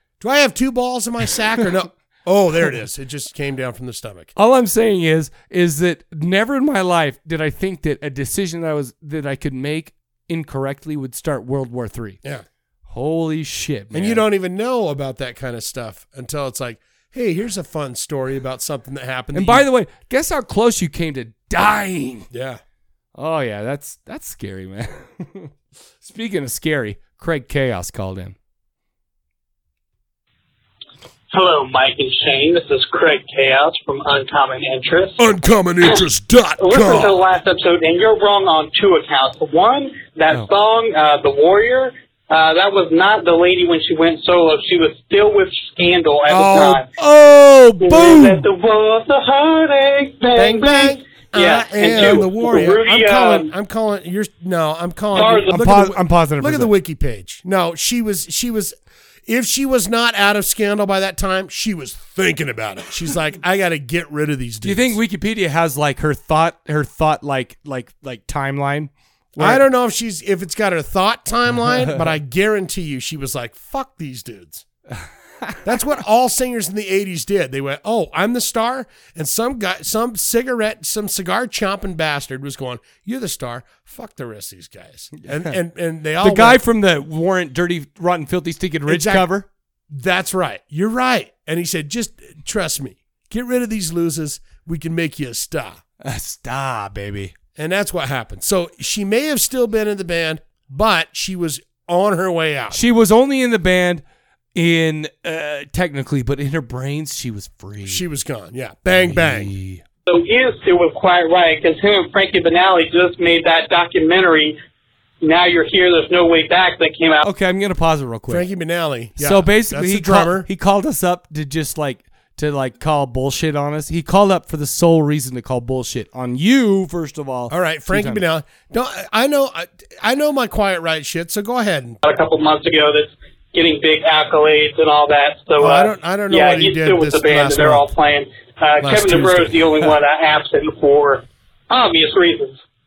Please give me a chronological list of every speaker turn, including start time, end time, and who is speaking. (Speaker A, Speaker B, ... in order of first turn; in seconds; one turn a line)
Speaker A: 0.2-4.3
Speaker B: 4.3-12.2
Speaker B: 12.9-14.2
Speaker A: 13.9-19.6
Speaker B: 19.3-22.3
Speaker A: 22.3-22.6
Speaker B: 23.1-28.4
Speaker C: 31.3-35.2
Speaker A: 35.2-37.2
Speaker C: 36.6-46.9
Speaker A: 46.3-48.5
Speaker C: 47.8-53.5
Speaker A: 50.3-65.0
Speaker C: 55.1-55.5
Speaker B: 55.5-56.7
Speaker B: 64.6-69.6
Speaker A: 69.4-74.6
Speaker A: 75.6-86.6
Speaker B: 85.2-85.5
Speaker B: 86.2-89.5
Speaker A: 88.9-89.3
Speaker A: 89.9-95.8
Speaker B: 96.0-97.3
Speaker A: 97.5-102.8
Speaker B: 102.7-104.0
Speaker B: 104.5-108.0
Speaker A: 107.8-109.5
Speaker B: 108.9-109.8
Speaker C: 110.1-114.5
Speaker C: 115.2-117.2
Speaker B: 117.2-118.5
Speaker A: 118.3-120.5
Speaker B: 119.2-128.2
Speaker A: 127.5-132.0
Speaker C: 132.0-142.6
Speaker A: 135.6-137.9
Speaker A: 138.8-139.6